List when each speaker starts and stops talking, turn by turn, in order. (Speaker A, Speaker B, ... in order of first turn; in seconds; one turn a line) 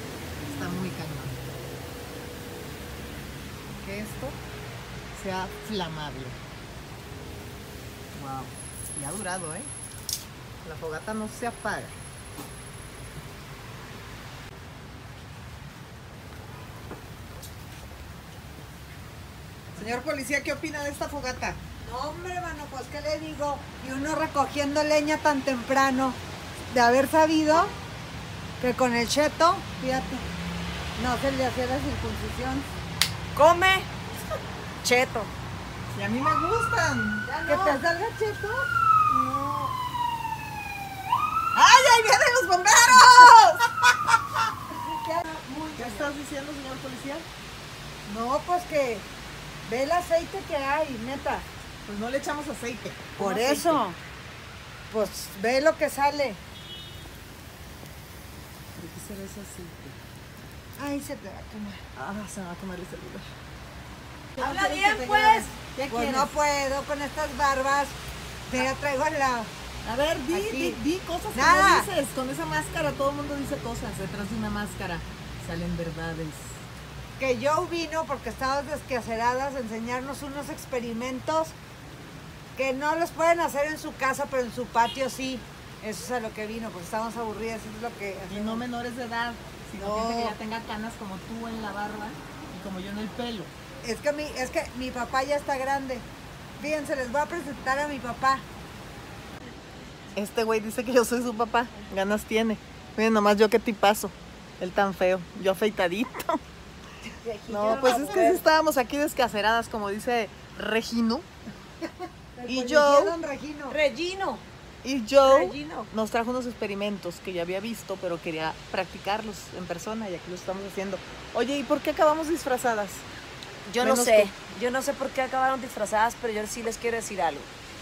Speaker A: 0.4-1.4
Speaker A: 3.8-4.4
Speaker A: 5.1-6.4
Speaker A: 8.1-9.7
Speaker A: 10.6-12.0
Speaker A: 19.8-21.6
Speaker B: 21.8-26.2
Speaker B: 26.7-27.8
Speaker B: 28.6-30.2
Speaker B: 31.0-32.7
Speaker C: 33.4-33.9
Speaker C: 34.8-35.3
Speaker A: 35.9-37.2
Speaker C: 37.2-37.8
Speaker B: 37.5-38.7
Speaker C: 39.1-39.7
Speaker A: 41.5-43.9
Speaker B: 44.7-46.1
Speaker A: 45.8-47.3
Speaker B: 48.1-49.1
Speaker B: 49.7-51.5
Speaker A: 51.9-53.2
Speaker B: 53.2-53.9
Speaker C: 53.2-54.0
Speaker B: 54.9-56.4
Speaker A: 58.8-60.0
Speaker B: 60.8-61.8
Speaker A: 62.0-63.3
Speaker C: 64.4-65.6
Speaker B: 64.4-68.0
Speaker A: 65.8-66.3
Speaker B: 68.5-69.5
Speaker A: 69.8-76.7
Speaker B: 70.3-70.8
Speaker B: 71.3-71.9
Speaker B: 77.2-81.6
Speaker B: 82.6-88.7
Speaker A: 88.3-93.5
Speaker B: 89.8-90.4
Speaker B: 93.8-96.1
Speaker B: 96.6-98.5
Speaker A: 100.2-106.4
Speaker C: 107.1-108.4
Speaker A: 107.5-111.3
Speaker B: 107.7-108.2
Speaker B: 111.8-113.8
Speaker A: 112.5-113.2
Speaker C: 113.7-114.4
Speaker A: 114.8-123.1
Speaker C: 115.2-115.9
Speaker C: 123.7-127.5
Speaker A: 123.8-124.3